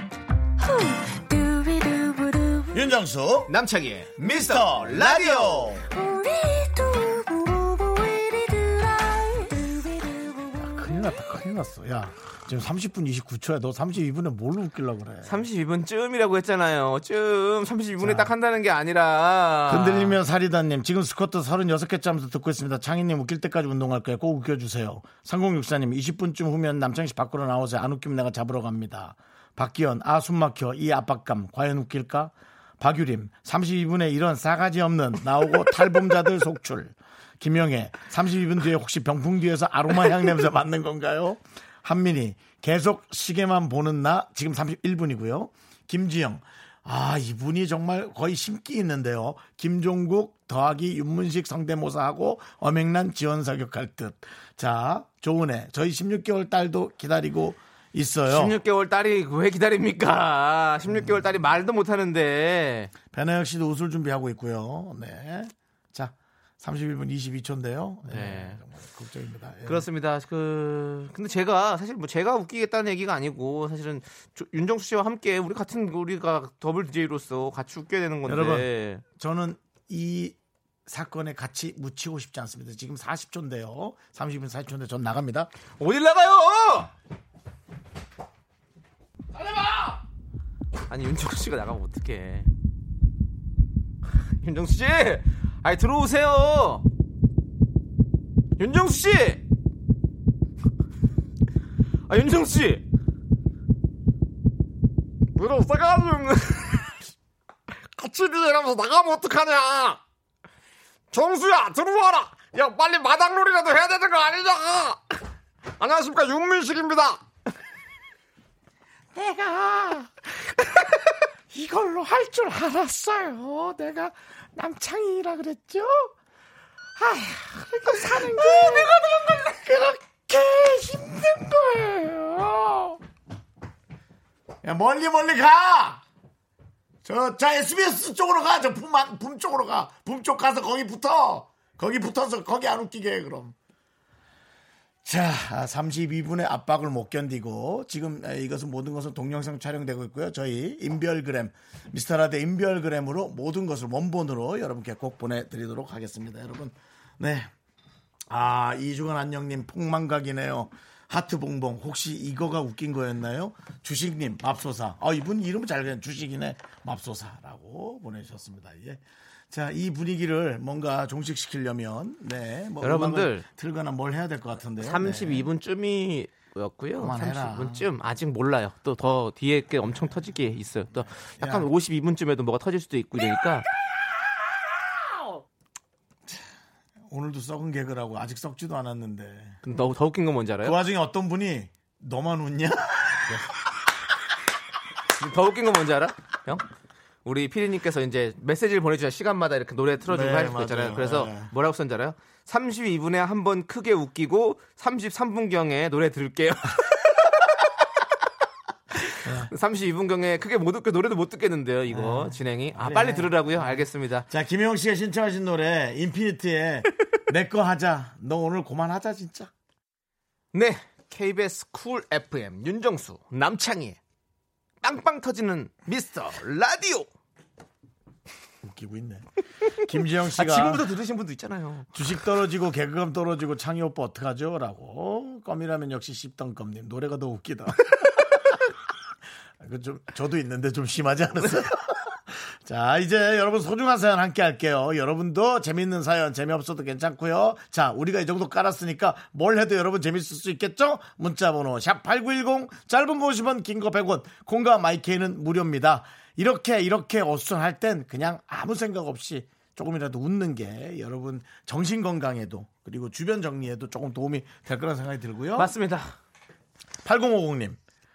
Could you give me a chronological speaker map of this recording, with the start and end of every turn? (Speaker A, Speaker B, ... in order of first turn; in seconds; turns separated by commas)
Speaker A: 0.6-2.8, Speaker B: 2.7-3.5, Speaker C: 3.5-5.8, Speaker B: 4.2-5.9, Speaker A: 5.9-11.0, Speaker B: 10.6-15.5, Speaker C: 15.2-20.2, Speaker B: 18.0-18.3, Speaker B: 19.7-58.6, Speaker C: 58.3-62.9, Speaker B: 60.9-61.2, Speaker B: 63.1-69.9, Speaker C: 68.1-68.6, Speaker C: 69.7-79.0, Speaker B: 78.3-85.5, Speaker C: 85.8-86.9, Speaker B: 89.4-90.0, Speaker C: 90.9-92.5, Speaker C: 94.3-96.8, Speaker C: 98.6-99.4, Speaker C: 102.1-102.8, Speaker C: 105.4-107.0, Speaker B: 108.0-109.9, Speaker B: 111.1-112.6, Speaker C: 112.6-113.2, Speaker B: 113.2-114.7, Speaker B: 115.8-117.1, Speaker B: 119.1-121.0, Speaker B: 121.5-126.1, Speaker B: 127.0-133.0, Speaker B: 134.6-136.0, Speaker B: 137.0-143.6, Speaker B: 145.0-157.5, Speaker B: 158.3-175.5, Speaker C: 172.8-173.5, Speaker C: 174.8-183.7, Speaker B: 177.0-177.9, Speaker B: 181.4-181.7, Speaker B: 187.1-189.6, Speaker C: 189.6-190.8, Speaker B: 190.6-193.4, Speaker C: 195.1-196.7, Speaker C: 197.2-207.6, Speaker B: 200.1-201.5, Speaker C: 209.0-214.3, Speaker B: 209.2-209.5, Speaker B: 211.9-219.5, Speaker C: 220.5-224.0, Speaker C: 224.8-227.1, Speaker B: 228.6-229.3, Speaker B: 229.8-230.8, Speaker C: 230.2-231.9, Speaker B: 231.9-238.6, Speaker B: 239.6-265.7, Speaker C: 265.6-266.2, Speaker B: 267.0-267.8